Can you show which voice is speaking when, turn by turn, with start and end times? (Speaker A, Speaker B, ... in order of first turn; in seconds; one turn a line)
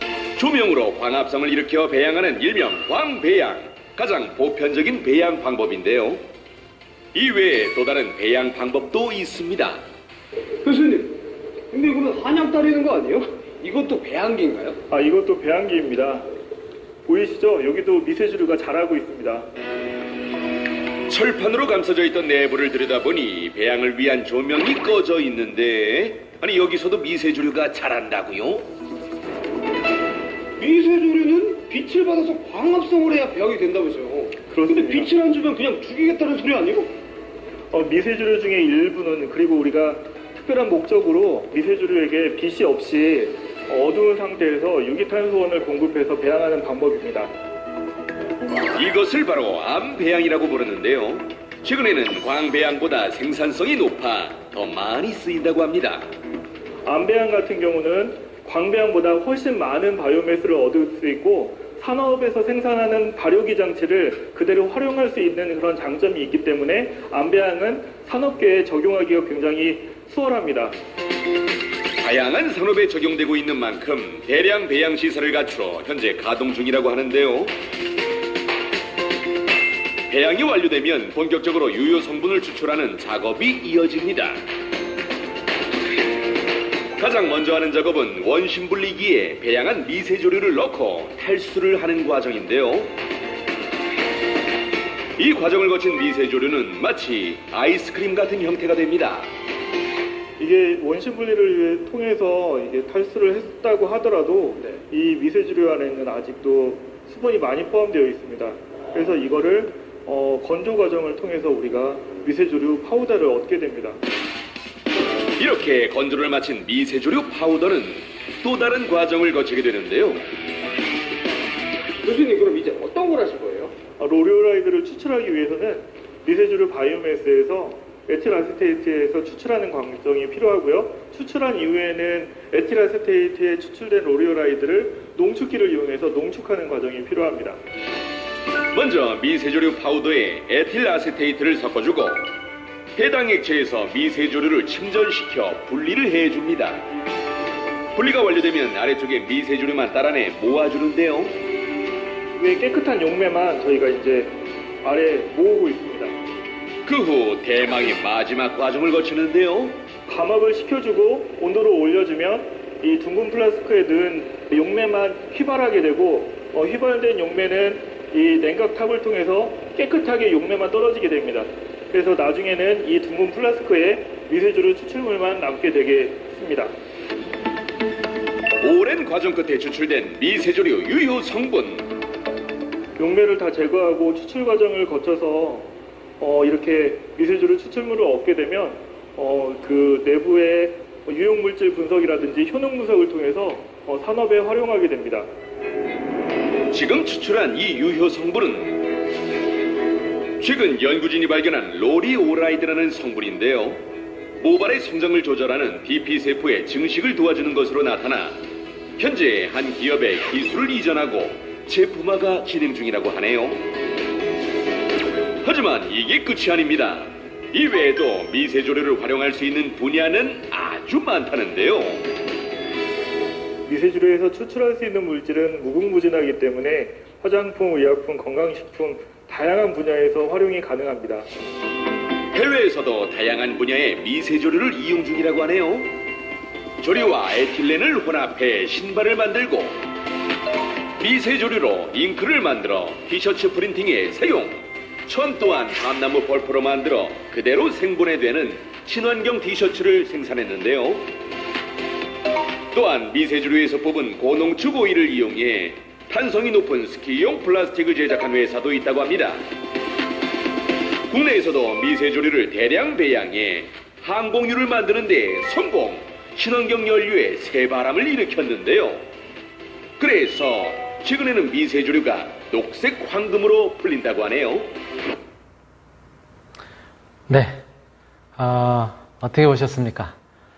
Speaker A: 0.4-6.2
Speaker A: 7.1-9.8
Speaker B: 10.6-14.8
Speaker C: 14.9-16.3
Speaker C: 17.1-19.5
Speaker A: 21.1-28.7
Speaker B: 30.6-36.9
Speaker C: 34.5-35.1
Speaker C: 37.7-47.3
Speaker A: 48.7-56.1
Speaker C: 56.9-70.7
Speaker A: 72.0-77.5
Speaker A: 80.1-84.4
Speaker A: 87.0-92.9
Speaker A: 95.2-99.3
Speaker C: 100.4-114.0
Speaker A: 115.4-120.3
Speaker B: 122.0-123.8
Speaker C: 124.0-137.6
Speaker A: 138.7-142.3
Speaker A: 143.0-146.8
Speaker A: 147.9-151.3
Speaker C: 152.4-156.1
Speaker A: 156.8-159.8
Speaker C: 160.1-176.7
Speaker A: 178.6-181.9
Speaker C: 183.0-195.3
Speaker A: 196.7-198.8
Speaker A: 200.4-203.8
Speaker A: 204.4-208.4
Speaker A: 209.0-213.6
Speaker A: 215.4-222.1
Speaker C: 223.7-231.3
Speaker A: 232.3-235.9
Speaker A: 236.8-239.8
Speaker A: 241.0-251.1
Speaker A: 252.7-259.4
Speaker A: 261.1-269.0
Speaker A: 270.0-274.7
Speaker D: 277.3-277.6
Speaker D: 278.4-280.1